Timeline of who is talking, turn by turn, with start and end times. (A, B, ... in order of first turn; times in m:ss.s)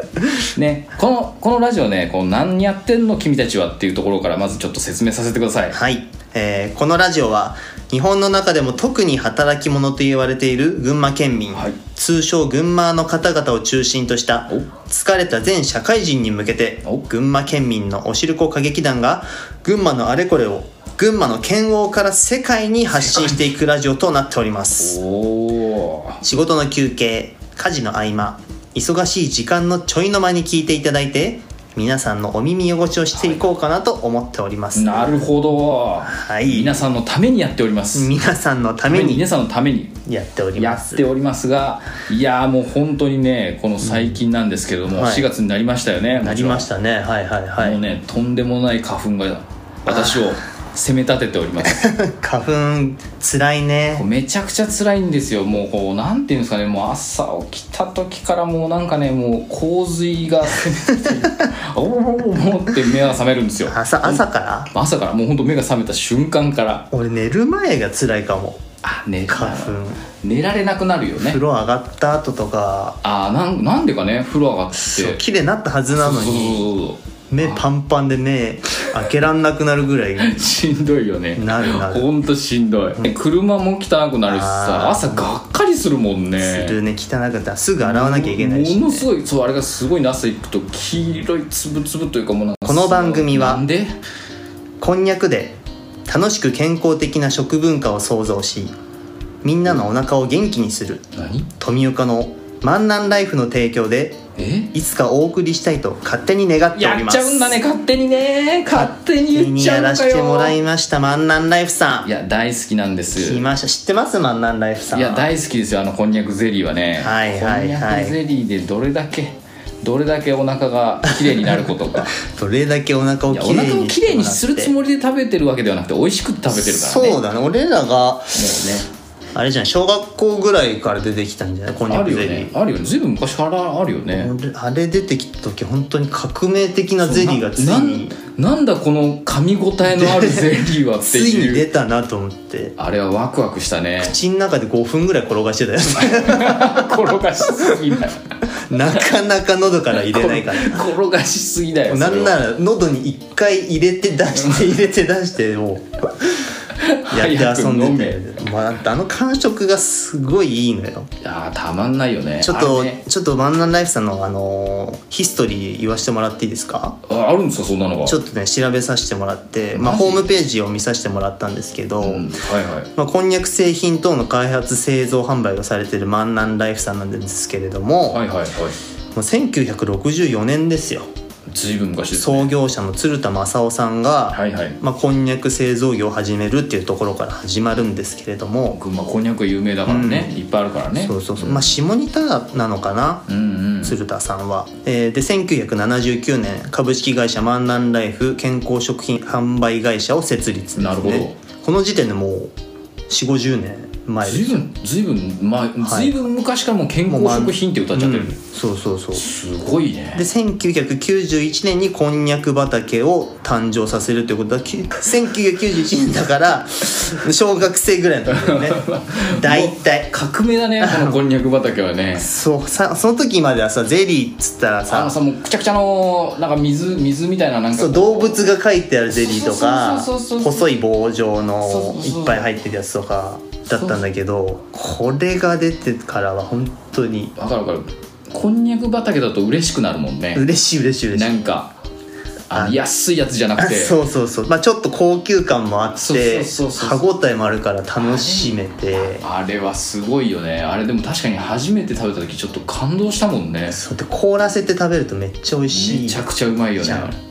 0:00.5-0:05.8 A
0:05.7-0:25.0 B
0:23.0-0:23.4 A
0:24.8-0:26.2 A
0:26.2-0:35.3 B
0:33.1-0:33.4 A
0:34.7-0:38.1 A
0:36.0-0:37.0 B
0:37.9-0:39.3 B
0:38.9-0:40.0 A
0:40.1-0:41.0 B
0:40.6-0:46.7 A
0:43.8-0:44.2 B
0:44.9-0:45.3 B
0:46.2-0:47.8 B
0:47.6-0:51.9 A
0:49.8-0:50.4 B
0:51.6-0:54.0 B
0:54.0-1:06.9 A
1:00.9-1:01.5 B
1:03.6-1:04.7 B
1:06.9-1:08.6 B
1:08.8-1:11.4 A
1:09.3-1:10.0 B
1:11.2-1:13.0 B
1:13.0-1:15.2 A
1:14.7-1:16.7 B
1:15.9-1:17.6 A
1:17.3-1:20.6 B
1:20.2-1:26.8 A
1:21.3-1:22.1 B
1:24.2-1:25.3 B
1:26.4-1:29.1 B
1:27.8-1:34.0 A
1:32.6-1:33.6 B
1:34.8-1:38.7 B
1:39.4-1:41.0 B
1:41.1-1:41.5 A
1:41.6-1:44.2 B
1:44.4-1:44.7 A
1:44.7-1:47.6 B
1:46.7-1:50.6 A
1:48.7-1:52.1 B
1:52.0-1:53.4 A
1:53.1-1:55.3 B
1:54.9-2:02.1 A
1:57.0-1:58.2 B
2:01.2-2:01.6 B
2:02.2-2:04.7 B
2:03.3-2:07.2 A
2:06.5-2:08.5 B
2:08.3-2:08.9 A
2:09.3-2:12.5 B
2:11.9-2:14.3 A
2:14.1-2:18.2 B
2:17.0-2:21.7 A
2:19.8-2:22.7 B
2:22.8-2:24.2 A
2:24.0-2:27.6 B
2:26.0-2:28.3 A
2:28.7-2:30.9 B
2:30.0-2:32.4 A
2:31.9-2:35.9 B
2:34.4-2:34.7 A
2:36.7-2:38.2 A
2:37.1-2:41.1 B
2:41.2-2:43.0 A
2:42.4-2:47.0 B
2:47.1-2:48.2 A
2:48.0-2:52.3 B
2:49.7-2:50.3 A
2:52.0-2:52.9 A
2:53.0-2:58.2 B
2:58.1-2:58.8 A
2:59.1-3:01.1 B
3:01.5-3:02.5 A
3:02.1-3:08.8 B
3:04.3-3:04.8 A
3:08.7-3:11.7 A
3:09.8-3:10.3 B
3:10.9-3:13.2 B
3:13.3-3:14.0 A
3:13.8-3:22.5 B
3:20.8-3:21.3 A
3:23.1-3:24.6 B
3:24.2-3:28.4 A
3:25.8-3:26.2 B
3:27.1-3:29.2 B
3:29.1-3:30.3 A
3:30.1-3:38.8 B
3:38.3-3:42.3 A
3:39.4-3:40.1 B
3:40.8-3:41.2 B
3:42.2-3:45.2 B
3:44.9-3:48.5 A
3:47.7-3:57.3 B
3:49.1-3:50.7 A
3:51.6-3:52.5 A
3:53.7-3:54.0 A
3:57.4-4:00.4 A
4:00.3-4:01.4 B
4:01.1-4:01.7 A
4:02.5-4:04.0 A
4:02.5-4:02.8 B
4:03.6-4:09.2 B
4:06.0-4:07.0 A
4:08.0-4:13.8 A
4:13.7-4:16.2 B
4:15.7-4:17.2 A
4:16.8-4:17.1 B